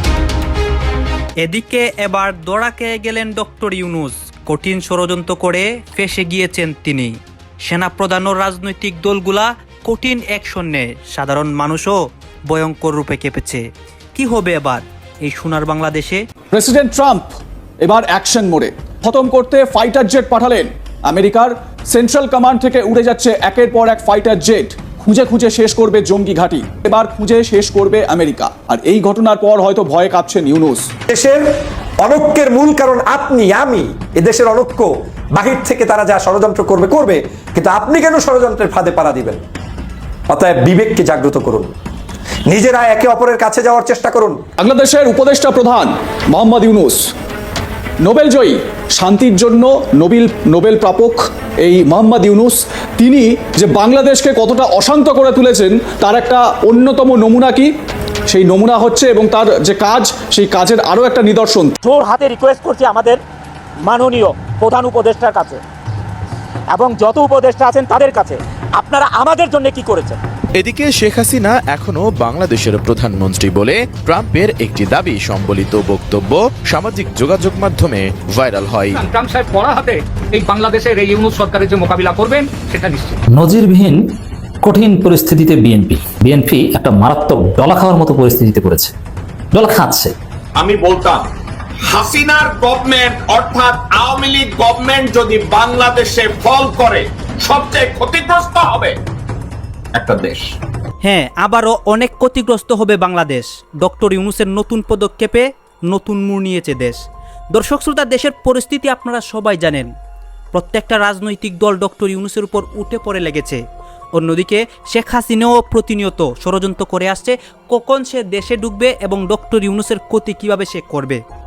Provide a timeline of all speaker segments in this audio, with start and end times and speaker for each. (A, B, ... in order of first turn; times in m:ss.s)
0:01.4-0:13.6 A
0:14.1-0:16.2 A
0:16.5-0:30.9 B
0:31.1-0:31.4 C
0:32.0-0:39.4 C
0:40.3-0:41.7 C
0:42.5-0:44.4 C
0:44.6-0:47.1 B
0:48.0-0:57.7 B
0:58.3-1:01.7 B
1:01.8-1:03.2 D
1:03.8-1:05.6 D
1:06.7-1:10.2 D
1:10.6-1:19.0 E
1:18.9-1:23.2 F
1:23.3-1:24.0 G
1:24.6-1:28.9 G
1:29.5-1:30.1 G
1:30.6-1:31.3 H
1:31.9-1:39.0 H
1:40.0-1:40.4 H
1:41.0-1:47.0 A
1:47.5-1:49.9 A
1:50.5-1:53.6 A
1:54.1-2:01.2 A